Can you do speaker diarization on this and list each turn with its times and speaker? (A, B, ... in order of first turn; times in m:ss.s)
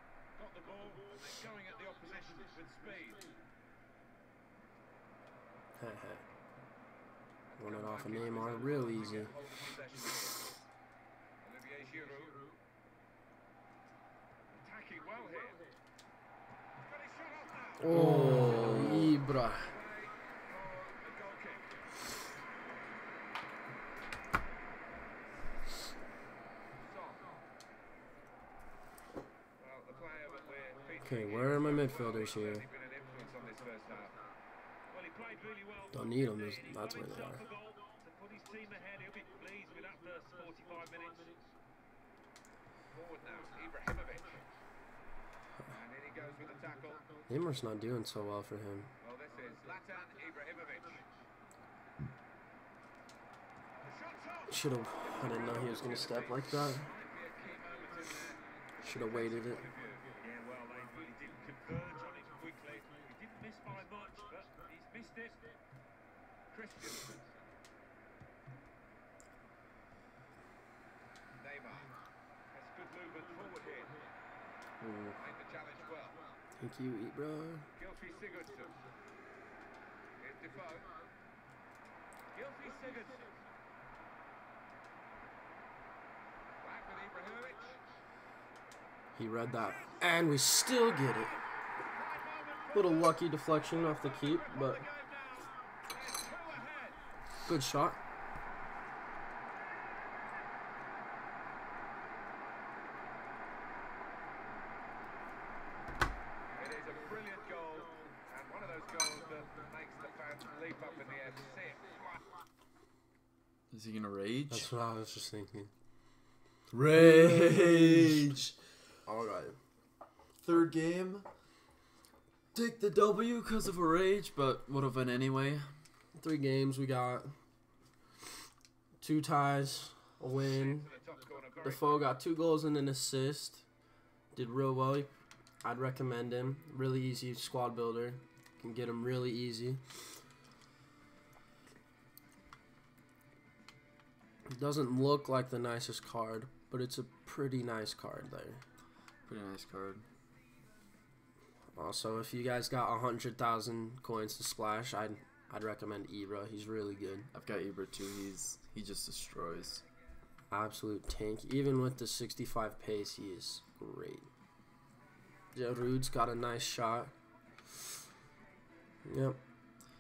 0:00.4-0:03.2 A
0:05.8-0:06.2 B
0:07.5-0:10.6 A
0:07.6-0:09.3 B
0:11.4-0:12.4 A
0:14.5-0:15.6 A
0:16.8-0:18.0 A
0:17.8-0:19.7 B
0:17.9-0:19.2 C
0:18.7-0:21.8 A
0:26.8-0:27.4 A
0:29.6-0:34.2 A
0:31.0-0:32.6 B
0:34.9-0:41.3 D
0:35.9-0:37.5 B
0:42.9-0:44.5 A
0:45.7-0:47.0 A
0:47.3-0:48.9 B
0:49.0-0:51.0 A
0:53.8-1:00.1 A
0:54.5-0:56.9 B
0:58.8-0:59.7 B
1:00.2-1:05.4 D
1:02.5-1:02.8 A
1:06.5-1:07.2 A
1:11.4-1:11.9 A
1:12.5-1:14.1 A
1:14.8-1:15.2 C
1:15.2-1:16.2 A
1:16.6-1:17.7 B
1:17.8-1:18.8 A
1:20.2-1:20.9 A
1:22.3-1:23.3 A
1:26.6-1:27.8 A
1:29.2-1:31.4 B
1:31.9-1:33.2 A
1:32.7-1:34.8 B
1:33.8-1:37.0 A
1:37.5-1:38.0 B
1:46.5-1:52.3 A
1:53.7-1:54.7 C
1:54.5-1:55.7 B
1:56.7-1:58.5 C
1:56.8-1:58.5 B
1:59.0-1:59.6 B
2:00.4-2:01.3 C
2:02.5-2:05.8 C
2:06.2-2:07.4 B
2:09.0-2:10.9 B
2:10.5-2:12.0 A
2:11.6-2:13.6 B
2:14.3-2:15.1 B
2:15.6-2:19.8 B
2:24.5-2:28.6 B
2:29.3-2:30.0 C
2:31.8-2:37.3 B
2:37.3-2:39.8 C
2:40.5-2:44.3 B
2:45.5-2:47.1 B
2:49.0-2:49.4 B